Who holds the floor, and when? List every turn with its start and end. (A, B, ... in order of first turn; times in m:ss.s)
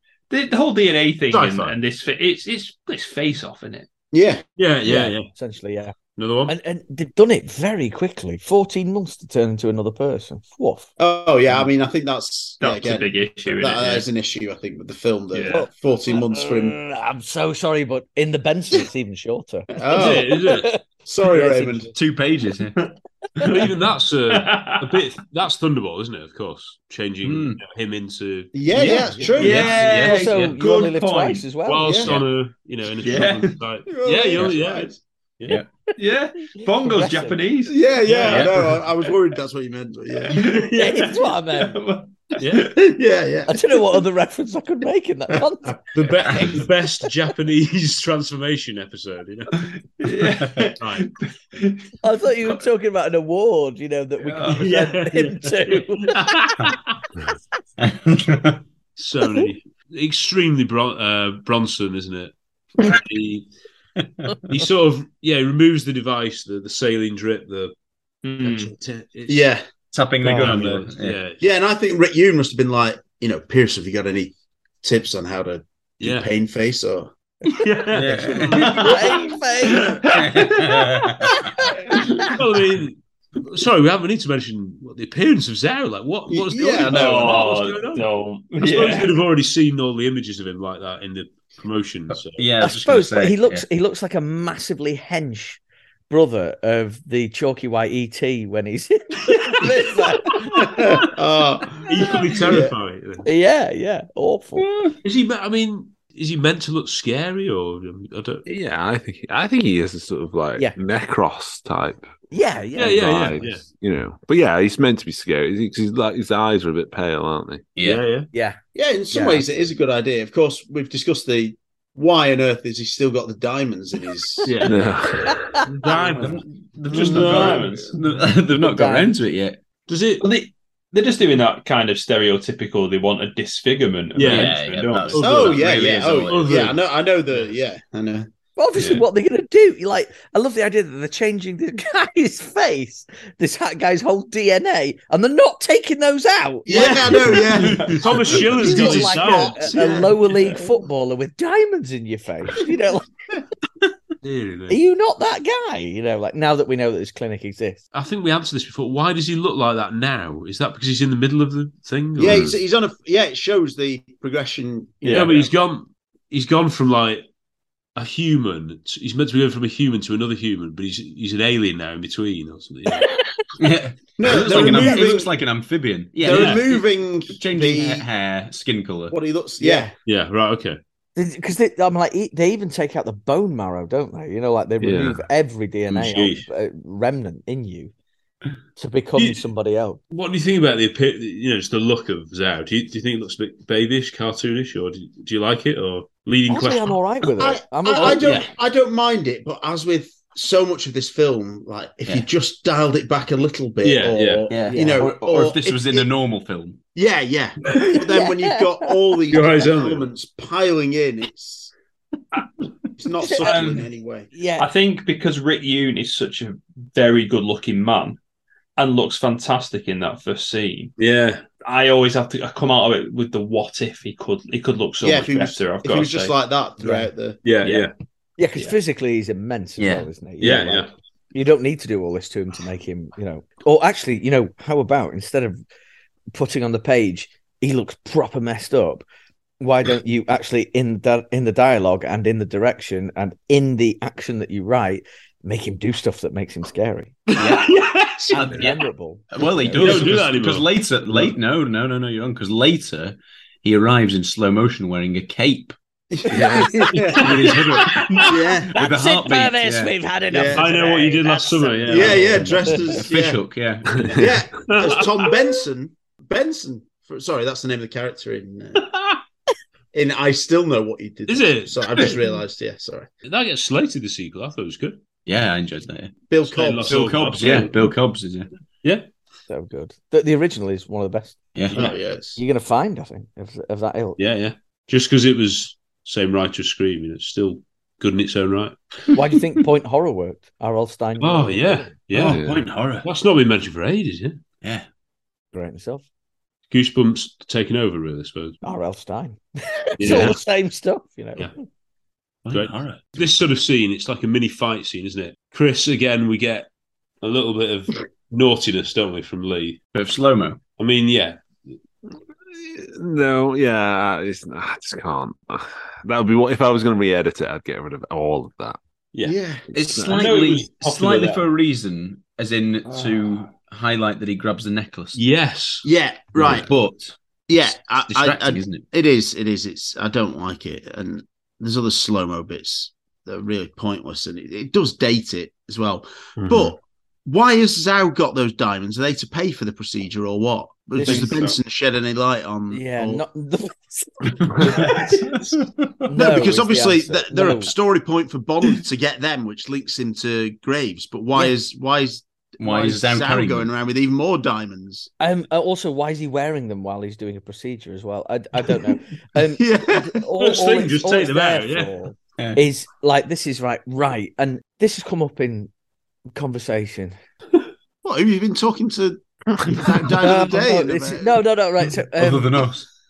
0:00.3-0:03.9 A
0:01.3-0:01.8 B
0:04.1-0:04.4 C
0:04.6-0:05.3 B
0:04.8-0:05.9 D
0:06.2-0:06.6 B
0:06.5-0:10.9 D
0:11.0-0:16.8 C
0:12.6-0:14.0 A
0:15.3-0:15.6 A
0:15.5-0:21.9 D
0:19.7-0:20.3 C
0:19.9-0:20.7 B
0:21.0-0:21.9 C
0:21.9-0:22.8 E
0:23.4-0:30.6 B
0:24.3-0:24.8 A
0:27.2-0:27.6 E
0:28.5-0:29.8 C
0:28.7-0:30.5 E
0:29.4-0:31.9 D
0:29.7-0:31.4 A
0:31.6-0:35.6 B
0:31.8-0:32.2 C
0:33.0-0:33.5 A
0:33.9-0:35.0 C
0:36.0-0:38.5 A
0:36.6-0:37.4 D
0:37.7-0:40.5 C
0:38.1-0:38.4 B
0:38.2-0:38.6 E
0:40.2-0:42.5 A
0:40.7-0:41.8 D
0:42.4-0:42.7 B
0:42.7-0:44.0 C
0:43.5-0:45.8 D
0:45.9-0:49.6 B
0:46.3-0:46.6 D
0:50.0-0:51.9 A
0:50.7-0:51.1 B
0:52.0-0:56.5 D
0:54.4-0:56.9 B
0:57.8-0:58.6 E
0:59.0-1:03.5 B
1:04.0-1:04.5 E
1:04.4-1:07.7 B
1:08.2-1:08.7 A
1:08.4-1:09.5 B
1:09.3-1:09.6 C
1:09.9-1:11.2 E
1:10.2-1:11.4 B
1:11.4-1:17.1 C
1:16.0-1:16.3 B
1:17.6-1:19.0 B
1:17.9-1:18.7 E
1:18.5-1:20.8 A
1:18.7-1:20.0 D
1:20.1-1:21.5 E
1:22.3-1:32.5 B
1:26.3-1:27.4 C
1:26.9-1:29.1 A
1:32.4-1:33.6 E
1:32.6-1:41.0 D
1:40.5-1:42.7 C
1:41.8-1:43.3 B
1:43.2-1:44.7 D
1:44.6-1:44.9 E
1:45.0-1:48.4 B
1:48.4-1:52.1 F
1:52.3-1:53.5 D
1:52.8-1:53.6 B
1:52.8-1:57.7 F
1:57.7-1:58.0 E
1:57.8-1:58.3 B
1:58.3-1:58.6 D
1:58.7-2:04.5 C
1:59.1-1:59.4 D
2:04.4-2:04.9 B
2:04.6-2:05.5 F
2:05.3-2:05.5 D
2:05.6-2:06.4 B
2:05.9-2:09.6 E
2:06.9-2:07.9 A
2:06.9-2:07.8 B
2:08.6-2:09.1 D
2:09.9-2:10.2 B
2:10.2-2:15.1 A
2:14.1-2:16.8 B
2:14.2-2:16.7 E
2:15.2-2:18.3 C
2:18.6-2:27.7 D
2:26.6-2:30.1 C
2:27.3-2:30.2 B
2:28.4-2:33.1 D
2:34.2-2:34.8 B
2:34.7-2:37.8 D
2:37.9-2:42.6 B
2:42.2-2:45.5 C
2:42.2-2:42.5 F
2:45.1-2:47.2 B
2:48.0-2:53.1 B
2:53.6-2:59.2 E
2:54.2-2:55.3 C
2:54.2-2:55.2 B
2:56.2-2:58.1 C
2:56.2-2:56.6 B
2:59.1-2:59.9 C
3:00.0-3:00.8 B
3:01.2-3:07.9 D
3:04.8-3:05.2 F
3:05.9-3:06.5 B
3:08.8-3:10.0 D
3:09.2-3:09.4 B
3:10.1-3:17.0 B
3:16.5-3:18.3 D
3:17.4-3:26.1 C
3:18.0-3:18.5 B
3:23.8-3:24.5 B
3:24.5-3:26.8 E
3:24.7-3:25.0 D
3:26.9-3:31.7 C
3:28.1-3:28.9 D
3:29.3-3:30.1 B
3:33.0-3:34.3 C
3:33.2-3:33.6 D
3:33.4-3:33.9 A
3:34.3-3:34.7 D
3:34.6-3:38.2 A
3:38.8-3:40.9 A
3:41.0-3:41.4 B
3:41.6-3:46.3 A
3:45.0-3:47.8 C
3:46.8-3:47.1 D
3:47.4-3:47.9 B
3:48.4-3:55.6 D
3:49.8-3:50.0 E
3:50.4-3:50.9 B
3:56.3-3:59.0 D
3:59.6-4:07.2 D
4:07.4-4:07.7 E
4:07.4-4:08.7 B
4:08.3-4:15.7 E
4:08.3-4:10.2 D
4:09.8-4:11.3 B
4:16.1-4:17.6 C
4:16.4-4:18.0 B
4:17.2-4:20.5 E
4:18.3-4:18.7 C
4:18.7-4:22.1 D
4:20.3-4:20.7 C
4:20.5-4:22.8 B
4:21.8-4:23.4 C
4:22.1-4:24.1 E
4:24.1-4:28.8 C
4:24.6-4:25.0 B
4:29.9-4:33.1 C
4:31.3-4:32.2 B
4:33.2-4:35.0 B
4:35.2-4:36.2 E
4:36.3-4:37.6 C
4:36.5-4:37.7 B
4:36.8-4:38.5 E
4:39.5-4:41.4 D
4:41.5-4:41.8 E
4:41.7-4:42.4 C
4:42.4-4:44.2 D
4:44.2-4:48.8 B
4:49.1-4:51.9 D
4:51.2-4:52.4 B
4:52.1-4:53.1 E
4:52.2-4:52.6 F
4:53.0-4:54.4 B
4:54.6-4:54.9 E
4:55.5-4:56.0 D
4:56.7-4:58.6 B
4:58.6-5:01.6 D
5:00.0-5:00.3 B
5:00.1-5:00.3 F
5:02.4-5:03.4 E
5:02.5-5:06.7 B
5:07.2-5:09.8 B
5:09.9-5:10.6 E
5:10.8-5:11.8 B
5:12.5-5:18.8 F
5:19.2-5:19.6 C
5:19.7-5:25.2 E
5:19.8-5:20.3 F
5:20.1-5:21.4 B
5:25.1-5:25.9 B
5:25.8-5:26.7 C
5:26.3-5:27.1 E
5:27.5-5:43.2 C
5:27.9-5:28.8 E
5:36.4-5:36.7 F
5:41.0-5:41.4 D
5:41.0-5:41.5 B
5:42.7-5:45.0 D
5:44.7-5:45.5 B
5:46.0-5:47.7 D
5:46.1-5:55.1 C
5:52.6-5:53.7 E
5:55.2-6:05.7 D
5:59.6-6:00.2 C
6:00.4-6:02.0 B
6:02.4-6:02.6 E
6:06.3-6:07.1 D
6:08.0-6:11.4 C
6:10.2-6:12.7 D
6:12.2-6:12.9 E